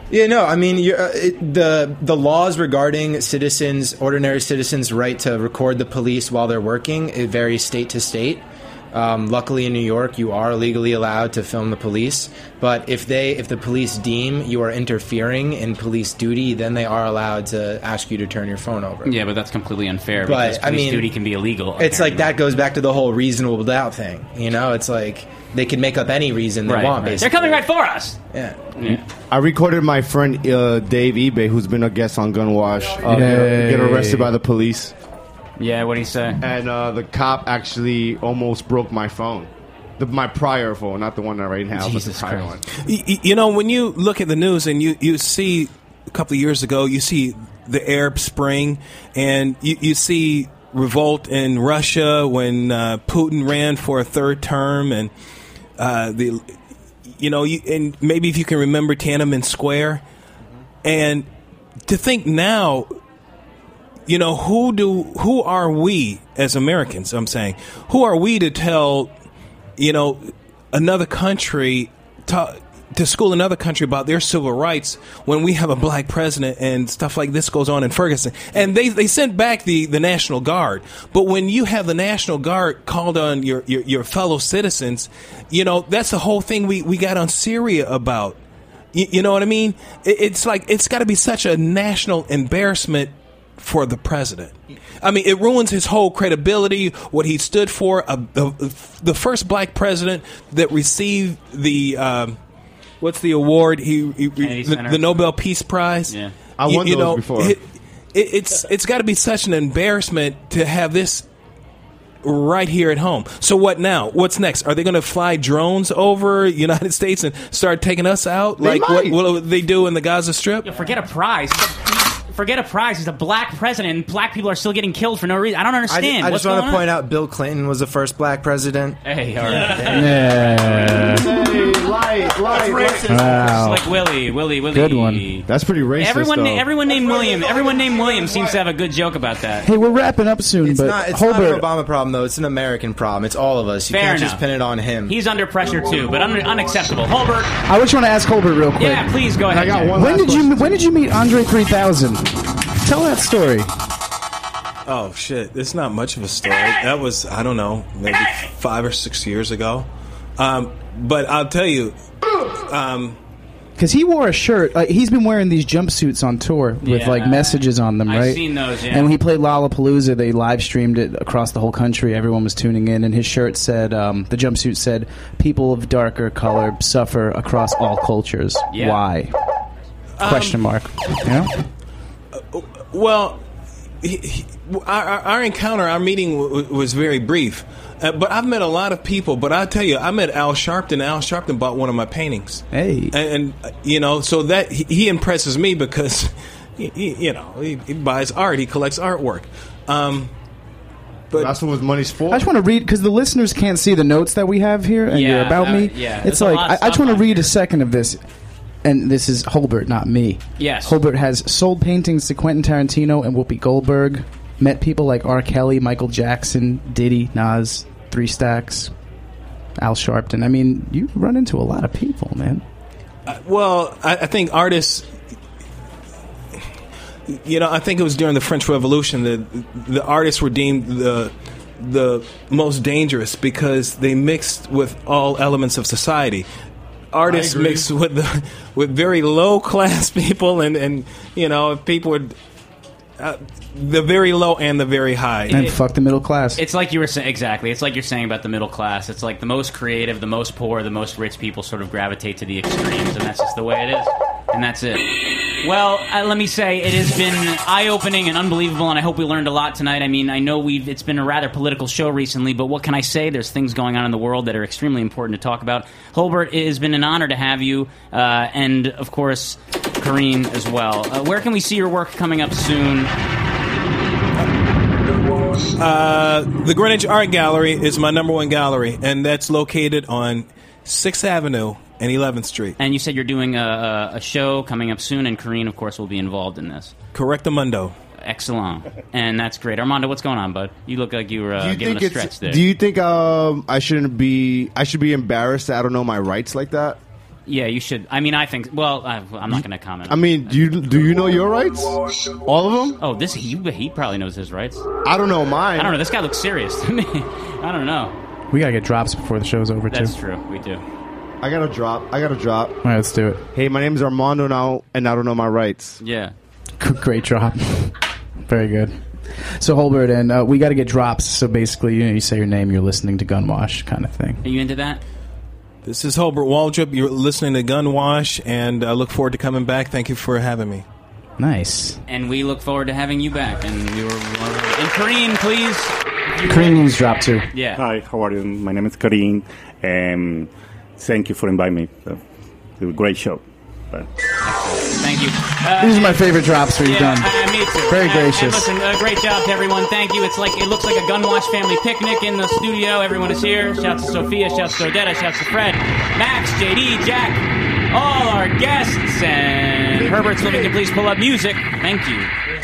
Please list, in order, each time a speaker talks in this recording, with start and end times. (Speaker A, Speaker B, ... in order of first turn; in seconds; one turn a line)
Speaker A: 0.1-19.1
Speaker B: 19.1-22.3
Speaker A: 20.2-21.1
Speaker A: 21.8-27.6
Speaker B: 26.7-28.2
Speaker A: 28.3-29.0
Speaker C: 29.3-34.9
Speaker D: 33.0-34.3
Speaker B: 35.6-36.4
Speaker C: 36.4-42.6
Speaker B: 41.8-42.5
Speaker E: 42.8-55.1
Speaker E: 55.8-56.6
Speaker E: 57.1-60.0
Speaker E: 60.8-61.3
Speaker E: 61.9-63.0
Speaker E: 64.1-69.1
Speaker E: 69.8-88.4
Speaker E: 88.9-102.4
Speaker E: 103.0-111.3
Speaker B: 104.4-105.2
Speaker C: 106.6-107.6
Speaker E: 112.2-120.7
Speaker C: 118.6-119.2
Speaker B: 120.7-126.9
Speaker A: 125.9-129.0
Speaker B: 129.0-130.9
Speaker E: 129.4-130.1
Speaker D: 129.8-131.3
Speaker C: 130.9-133.6
Speaker B: 132.5-135.5
Speaker D: 133.1-133.9
Speaker D: 134.7-135.3
Speaker C: 135.5-138.6
Speaker B: 136.0-139.7
Speaker D: 139.6-141.6
Speaker A: 140.6-145.2
Speaker B: 143.9-144.4
Speaker B: 145.1-147.5
Speaker D: 147.7-149.1
Speaker B: 148.8-150.4
Speaker C: 149.5-150.5
Speaker D: 149.9-153.7
Speaker E: 154.9-162.0
Speaker E: 162.6-163.2
Speaker D: 163.8-179.3
Speaker B: 166.8-169.1
Speaker B: 178.7-179.0
Speaker E: 180.2-180.6
Speaker D: 180.2-181.5
Speaker E: 182.3-183.4
Speaker E: 184.0-200.3
Speaker D: 192.7-193.1
Speaker E: 201.3-201.6
Speaker C: 201.3-202.5
Speaker D: 202.3-208.2
Speaker B: 205.1-207.5
Speaker D: 208.8-218.9
Speaker B: 210.6-211.0
Speaker D: 219.8-222.6
Speaker E: 223.3-225.1
Speaker E: 227.3-236.5
Speaker E: 237.1-242.4
Speaker C: 237.2-237.9
Speaker E: 243.2-245.6
Speaker B: 245.5-245.8
Speaker D: 245.5-246.6
Speaker B: 246.6-255.1
Speaker B: 255.6-273.1
Speaker E: 275.8-282.8
Speaker B: 282.8-286.9
Speaker E: 287.1-288.0
Speaker B: 288.2-292.6
Speaker C: 291.6-297.0
Speaker B: 297.5-300.8
Speaker C: 300.1-303.0
Speaker B: 303.0-304.8
Speaker C: 305.1-306.0
Speaker B: 305.8-308.1
Speaker D: 308.5-310.1
Speaker B: 309.9-310.8
Speaker C: 311.4-312.8
Speaker D: 312.8-313.4
Speaker C: 313.5-316.0
Speaker B: 316.0-316.3
Speaker D: 316.8-317.9
Speaker D: 318.5-324.4
Speaker B: 324.4-325.0
Speaker E: 325.8-330.9
Speaker D: 331.4-332.0
Speaker B: 332.1-337.0
Speaker D: 336.4-337.5
Speaker B: 337.5-337.8
Speaker F: 337.8-342.2
Speaker F: 342.8-344.1
Speaker B: 344.4-346.3
Speaker D: 345.8-348.7
Speaker B: 346.8-362.3